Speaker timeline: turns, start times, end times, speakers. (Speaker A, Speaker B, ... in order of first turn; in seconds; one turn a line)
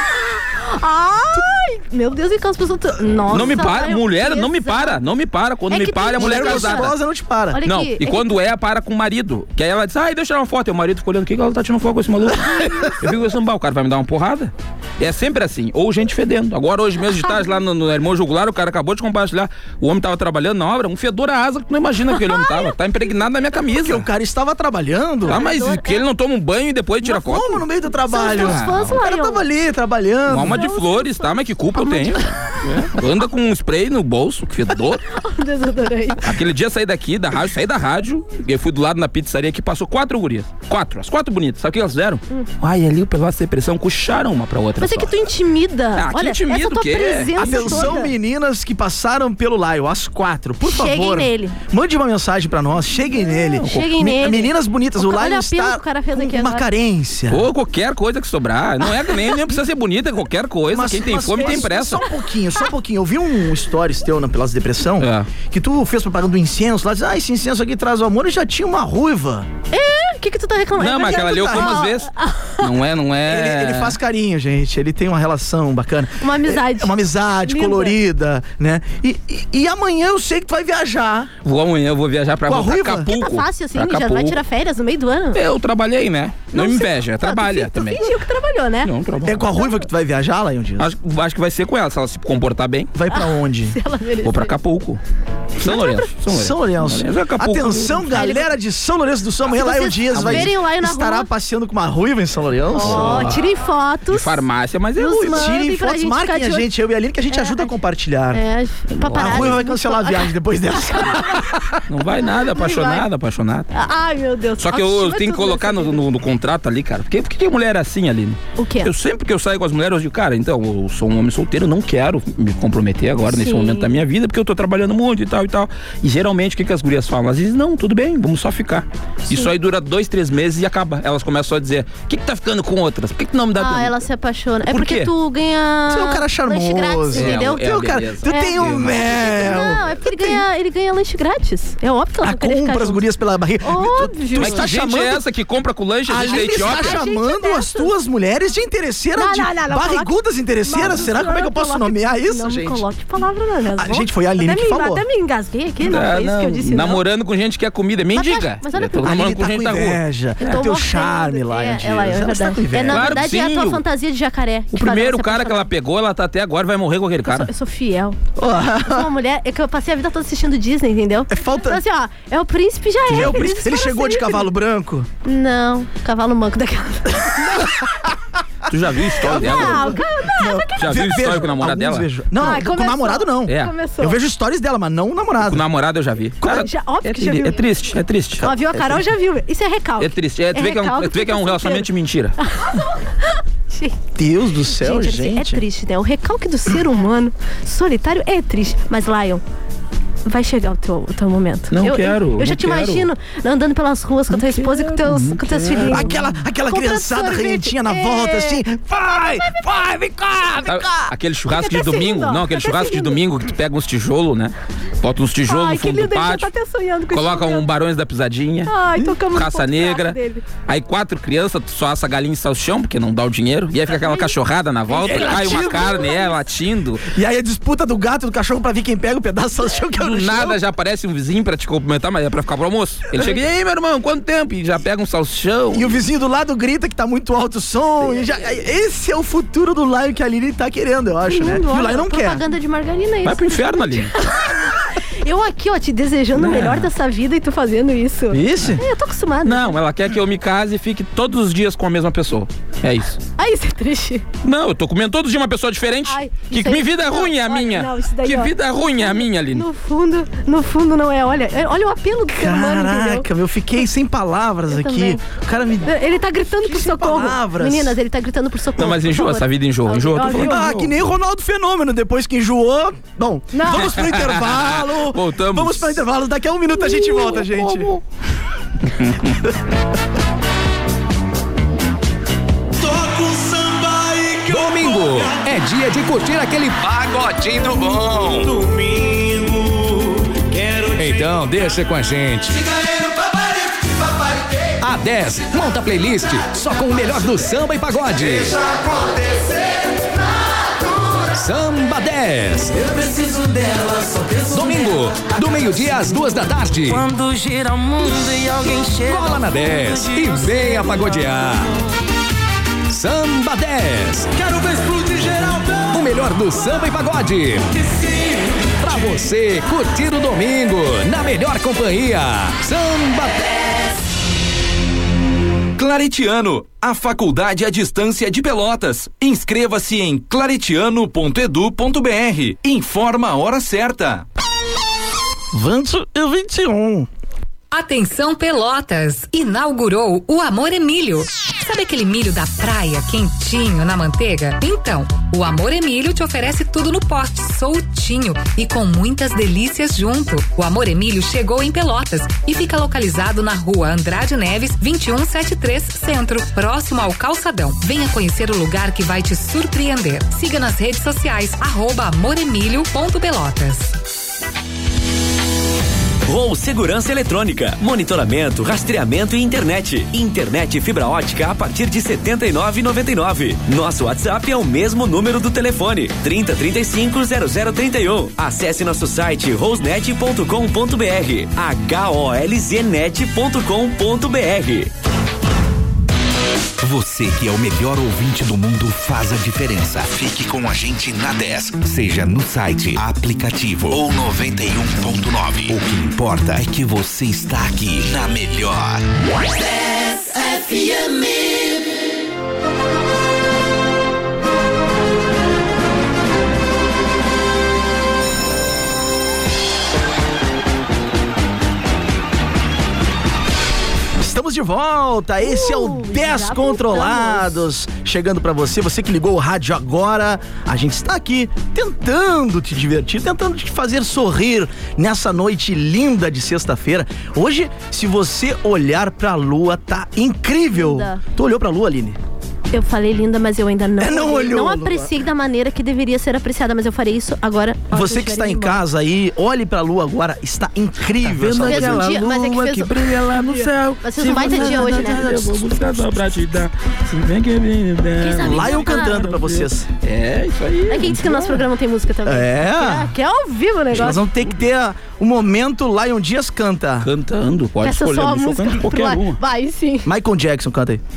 Speaker A: 0.5-5.0
Speaker B: 3.3-6.9
Speaker A: 5.7-6.9
Speaker C: 6.2-7.6
Speaker A: 7.5-8.4
Speaker B: 7.6-24.1
Speaker C: 23.7-25.4
Speaker A: 25.2-26.0
Speaker B: 25.3-27.6
Speaker C: 27.0-30.6
Speaker A: 28.1-29.4
Speaker B: 28.2-29.0
Speaker B: 30.3-35.0
Speaker A: 30.4-32.2
Speaker A: 35.1-36.2
Speaker B: 36.2-45.2
Speaker A: 44.8-48.1
Speaker B: 46.0-48.0
Speaker C: 47.4-57.5
Speaker A: 50.6-51.6
Speaker A: 53.5-56.6
Speaker B: 53.6-53.9
Speaker B: 57.3-62.0
Speaker C: 60.7-69.5
Speaker A: 61.4-61.8
Speaker B: 65.0-65.3
Speaker A: 69.7-72.7
Speaker B: 70.8-74.0
Speaker C: 71.0-71.9
Speaker C: 73.2-81.3
Speaker A: 76.2-76.9
Speaker A: 77.5-78.0
Speaker B: 81.4-84.4
Speaker C: 82.5-83.1
Speaker A: 83.1-85.4
Speaker B: 85.3-88.1
Speaker A: 86.5-88.9
Speaker B: 88.8-89.5
Speaker C: 89.2-90.9
Speaker B: 90.8-92.9
Speaker C: 92.9-93.8
Speaker A: 93.1-94.5
Speaker B: 94.2-95.0
Speaker B: 95.6-98.2
Speaker A: 95.6-96.1
Speaker C: 96.3-103.4
Speaker A: 98.1-98.5
Speaker A: 99.5-101.3
Speaker B: 100.1-100.5
Speaker A: 102.7-104.4
Speaker B: 102.8-103.4
Speaker B: 104.1-105.6
Speaker A: 105.0-106.7
Speaker C: 105.2-108.4
Speaker A: 107.3-107.7
Speaker A: 108.3-111.4
Speaker B: 109.0-109.6
Speaker C: 109.1-111.8
Speaker B: 111.9-113.7
Speaker A: 112.4-113.0
Speaker A: 113.7-116.0
Speaker B: 114.6-134.0
Speaker A: 118.6-118.9
Speaker A: 123.3-123.9
Speaker A: 133.6-137.7
Speaker B: 134.7-135.1
Speaker C: 135.9-140.4
Speaker B: 137.1-139.8
Speaker A: 138.2-143.0
Speaker C: 142.2-145.2
Speaker A: 143.6-144.7
Speaker B: 144.4-147.0
Speaker C: 146.1-152.8
Speaker A: 146.2-147.9
Speaker A: 149.2-157.0
Speaker C: 153.8-155.0
Speaker B: 155.8-160.0
Speaker A: 158.1-159.1
Speaker C: 159.0-163.2
Speaker A: 160.4-165.7
Speaker B: 162.9-163.8
Speaker B: 164.7-167.5
Speaker A: 167.3-168.2
Speaker C: 168.4-169.1
Speaker A: 168.8-174.5
Speaker C: 171.3-171.8
Speaker C: 173.1-175.1
Speaker A: 175.2-177.7
Speaker B: 178.7-180.0
Speaker C: 179.2-185.6
Speaker A: 179.3-181.4
Speaker B: 180.8-182.1
Speaker A: 182.4-184.2
Speaker B: 183.5-183.7
Speaker B: 185.4-188.5
Speaker C: 186.4-186.7
Speaker A: 186.4-187.6
Speaker C: 188.4-189.0
Speaker A: 188.4-191.9
Speaker B: 190.0-192.3
Speaker A: 192.4-193.9
Speaker C: 194.2-195.6
Speaker A: 194.7-199.4
Speaker A: 200.2-206.1
Speaker B: 201.7-203.1
Speaker B: 204.3-206.3
Speaker C: 205.8-211.1
Speaker A: 206.7-208.6
Speaker B: 210.6-216.5
Speaker A: 211.5-213.2
Speaker A: 215.4-217.7
Speaker B: 217.1-218.7
Speaker A: 218.7-220.4
Speaker B: 219.3-227.1
Speaker A: 223.9-224.3
Speaker C: 224.9-226.2
Speaker A: 225.0-226.3
Speaker C: 227.1-230.6
Speaker B: 230.0-236.0
Speaker C: 235.7-242.4
Speaker A: 241.2-244.5
Speaker B: 243.2-244.1
Speaker A: 245.2-249.8
Speaker B: 246.3-246.9
Speaker C: 248.3-248.8
Speaker B: 249.4-253.2
Speaker A: 253.4-254.2
Speaker B: 254.4-259.6
Speaker A: 256.1-263.3
Speaker C: 262.3-268.0
Speaker A: 264.7-265.2
Speaker A: 265.9-270.6
Speaker B: 268.8-270.9
Speaker C: 270.3-277.9
Speaker A: 273.5-274.0
Speaker B: 273.7-276.0
Speaker B: 277.3-278.0
Speaker B: 278.9-279.4
Speaker D: 284.5-288.5
Speaker D: 290.9-292.7
Speaker D: 294.8-298.6
Speaker D: 301.3-303.0
Speaker D: 304.3-307.1
Speaker E: 306.9-311.0
Speaker D: 309.0-311.7
Speaker D: 312.9-318.0
Speaker D: 318.8-323.6
Speaker F: 325.8-334.3
Speaker C: 335.5-337.1
Speaker G: 337.7-363.9
Speaker H: 366.2-384.9
Speaker I: 386.8-399.1
Speaker C: 414.2-432.2
Speaker A: 415.4-417.6
Speaker A: 430.7-431.2
Speaker A: 432.7-438.8
Speaker C: 434.0-435.1
Speaker C: 437.9-443.4
Speaker B: 441.2-451.6
Speaker A: 441.6-442.9
Speaker A: 444.0-445.3
Speaker C: 444.3-446.0
Speaker A: 448.2-449.2
Speaker C: 448.4-449.9
Speaker A: 450.9-454.2
Speaker C: 452.2-453.1
Speaker C: 453.9-457.1
Speaker B: 457.0-459.4
Speaker A: 457.8-460.1
Speaker C: 460.0-461.0